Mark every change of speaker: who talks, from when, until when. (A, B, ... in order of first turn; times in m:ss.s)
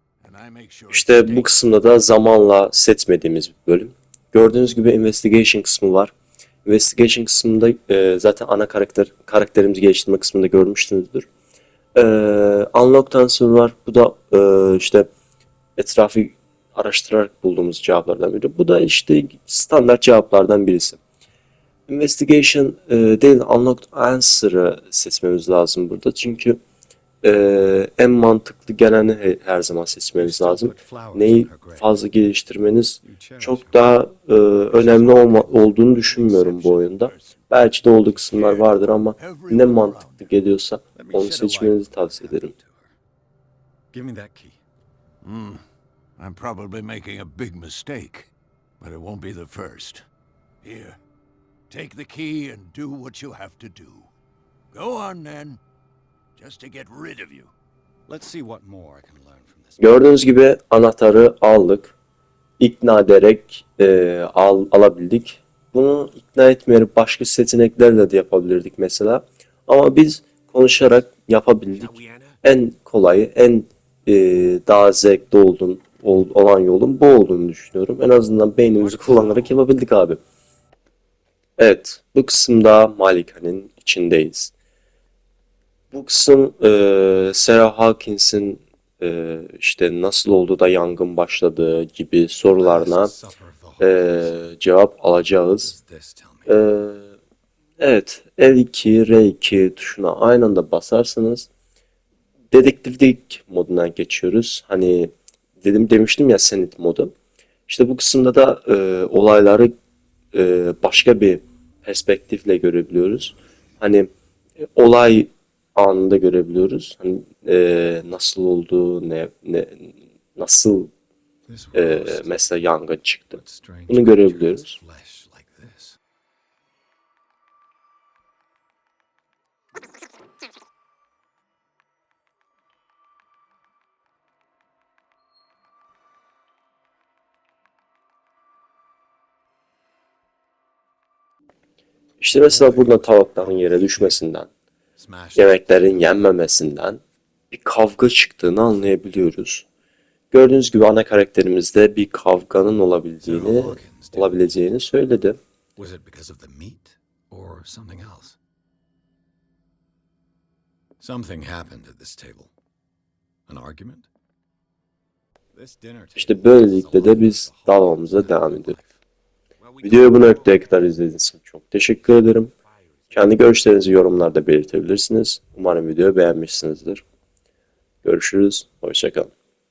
0:00.2-0:01.7 A
0:00.9-0:06.1 B
0:06.6-0:11.3 B
0:12.0-0:15.1 B
0:15.8-0:21.0 B
0:21.9-0:26.6 B
0:27.2-0:42.5 B
0:30.1-0:32.0 C
0:33.0-0:34.0 C
0:34.7-0:35.8 C
0:35.8-0:37.5 A
0:38.1-0:40.2 A
0:40.9-0:42.9 C
0:43.9-0:44.6 C
0:45.2-0:45.6 A
0:46.2-0:50.0 A
0:50.6-0:51.0 A
0:51.7-0:54.1 A
0:54.7-0:55.6 A
0:56.4-0:57.5 A
0:58.1-1:00.0 C
0:59.8-1:01.9 B
1:02.6-1:20.2 B
1:11.9-1:12.4 A
1:18.8-1:19.6 A
1:21.6-1:24.5 B
1:25.9-1:33.1 B
1:32.6-1:34.4 C
1:33.8-1:35.7 B
1:35.6-1:36.6 C
1:36.5-1:37.1 B
1:37.8-1:41.5 B
1:42.5-1:47.1 B
1:47.7-1:49.7 B
1:50.3-1:54.1 B
1:54.6-2:00.9 B
2:01.5-2:02.6 C
2:01.7-2:04.8 B
2:03.3-2:06.0 C
2:22.2-2:24.5 B
2:22.4-2:24.2 C
2:25.0-2:26.3 C
2:25.4-2:29.6 B
2:30.3-2:35.4 B
2:33.2-2:34.5 C
2:35.8-2:38.4 C
2:41.0-2:42.5 C
2:43.5-2:44.1 C
2:45.5-2:49.0 C
2:46.2-2:48.8 B
2:49.8-2:52.5 B
2:53.1-2:57.0 B
2:58.0-2:59.3 B